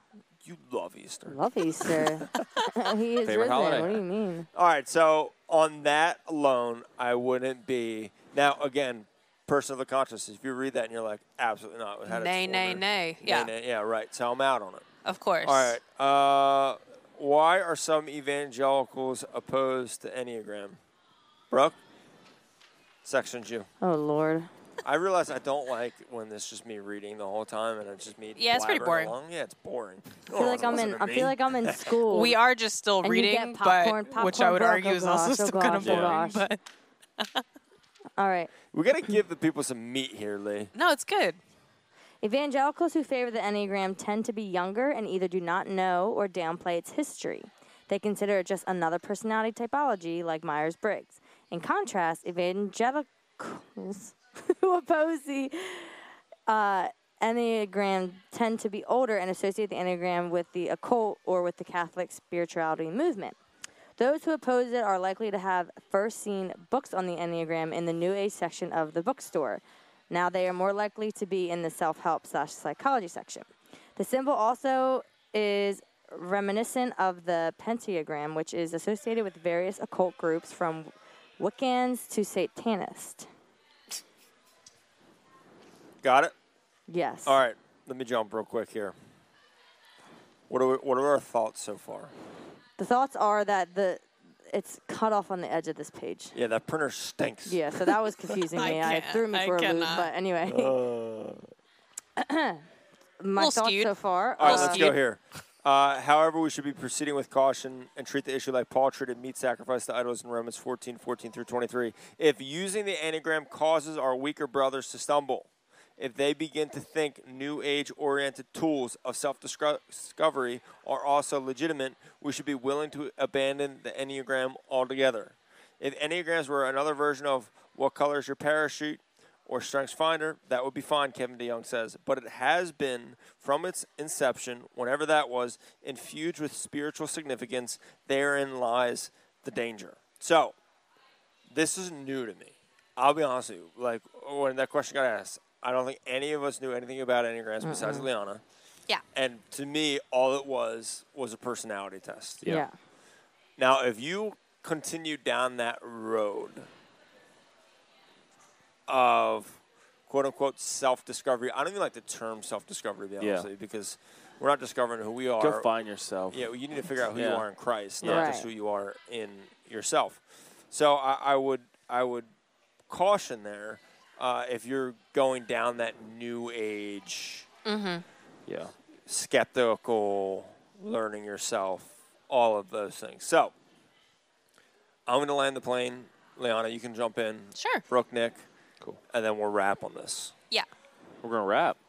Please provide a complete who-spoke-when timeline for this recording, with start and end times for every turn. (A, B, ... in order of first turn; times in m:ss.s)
0:00.4-0:02.3 A
0:01.3-0:04.5 B
0:03.2-0:04.0 C
0:04.5-0:14.8 A
0:12.1-0:13.5 D
0:15.0-0:15.8 D
0:15.4-0:20.8 A
0:21.5-0:21.8 A
0:23.0-0:23.7 A
0:23.8-0:24.5 B
0:24.8-0:31.9 A
0:28.4-0:29.1 D
0:30.3-0:32.4 B
0:32.1-0:36.6 D
0:33.0-0:36.5 B
0:35.8-0:36.1 C
0:38.2-0:38.5 B
0:38.7-0:40.7 A
0:40.7-0:41.4 D
0:42.2-1:03.4 B
1:04.0-1:23.3 B
1:26.0-1:26.3 A
1:26.9-1:27.4 B
1:27.2-1:28.9 A
1:30.5-1:32.1 A
1:32.8-1:36.3 B
1:36.3-1:37.9 A
1:37.4-1:40.8 B
1:38.5-1:40.1 D
1:40.4-1:41.5 A
1:42.2-1:42.6 B
1:43.2-1:44.9 B
1:43.4-1:45.0 D
1:44.4-2:20.6 A
2:21.5-2:28.4 A
2:27.6-2:28.1 B
2:29.1-2:32.4 A
2:32.4-2:32.7 B
2:33.6-2:36.7 A
2:38.9-2:45.7 A
2:43.2-2:43.5 C
2:45.4-2:46.4 C
2:46.3-2:52.3 A
2:47.1-2:47.4 C
2:48.0-2:48.3 C
2:48.0-2:48.5 B
2:52.9-2:57.5 A
2:57.6-2:58.0 D
2:58.5-2:58.7 C
2:59.0-3:03.5 A
3:05.1-3:08.4 A
3:07.6-3:07.8 D
3:09.1-3:10.3 A
3:11.2-3:11.8 C